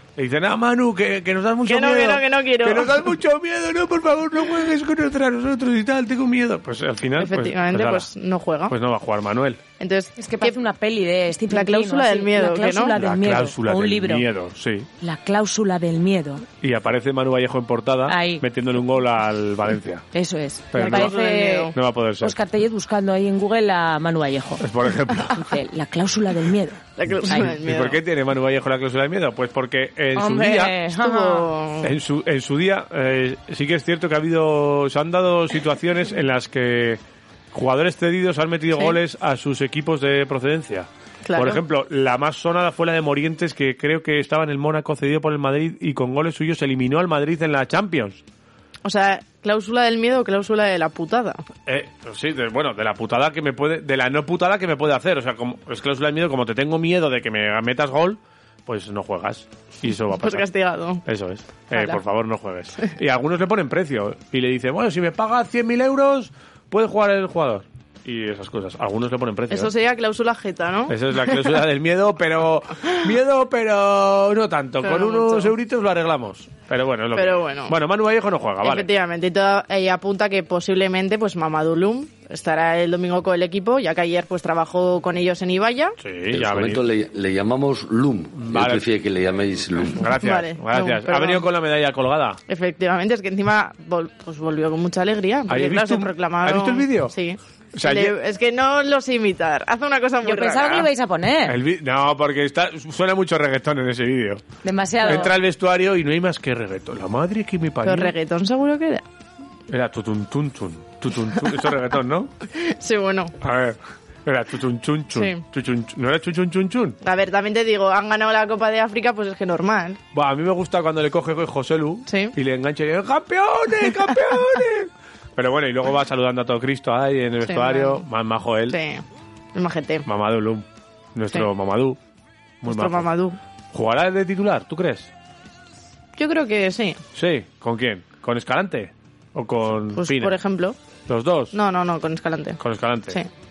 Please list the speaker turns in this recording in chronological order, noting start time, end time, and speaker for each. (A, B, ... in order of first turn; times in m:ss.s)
0:00.2-0:08.1 A
0:01.6-0:03.0 B
0:07.2-0:08.7 B
0:08.7-0:09.6 A
0:09.8-0:10.6 B
0:10.2-0:14.2 C
0:11.5-0:12.9 B
0:13.0-0:14.9 A
0:15.0-0:16.4 C
0:16.6-0:20.0 A
0:18.1-0:18.4 C
0:20.1-0:24.6 C
0:20.7-0:21.1 A
0:20.8-0:21.7 B
0:21.7-0:22.3 A
0:24.6-0:25.4 A
0:25.3-0:27.5 C
0:27.0-0:28.0 B
0:27.4-0:30.8 A
0:30.1-0:31.5 C
0:30.9-0:31.9 B
0:31.8-0:37.0 A
0:37.5-0:48.2 A
0:41.2-0:41.6 B
0:48.8-0:51.4 B
0:51.7-1:00.5 A
1:00.1-1:01.0 B
1:01.0-1:09.7 A
1:01.7-1:02.0 B
1:09.5-1:11.5 B
1:10.9-1:18.9 A
1:14.8-1:15.5 B
1:17.1-1:17.7 B
1:18.6-1:26.0 B
1:26.0-1:26.8 A
1:26.3-1:30.0 D
1:28.4-1:28.8 A
1:30.0-1:32.4 A
1:30.1-1:31.5 B
1:32.5-1:40.9 B
1:35.5-1:37.1 A
1:37.7-1:38.1 A
1:40.2-1:41.6 C
1:41.4-1:44.4 A
1:44.6-1:45.3 C
1:45.0-1:48.1 A
1:45.0-1:45.3 B
1:47.8-1:49.0 B
1:49.7-1:52.3 A
1:52.5-1:53.3 B
1:53.4-1:57.0 A
1:55.1-1:55.4 B
1:57.0-2:00.0 B
2:00.1-2:08.8 A
2:02.1-2:02.3 B
2:07.4-2:08.0 B
2:08.7-2:09.0 B
2:09.5-2:10.1 B
2:10.0-2:12.0 A
2:12.6-2:13.1 A
2:12.6-2:13.4 B
2:13.7-2:15.1 A
2:16.2-2:17.0 B
2:17.1-2:20.4 A
2:19.9-2:20.8 B
2:21.1-2:21.5 A
2:21.5-2:22.6 B
2:22.6-2:23.2 A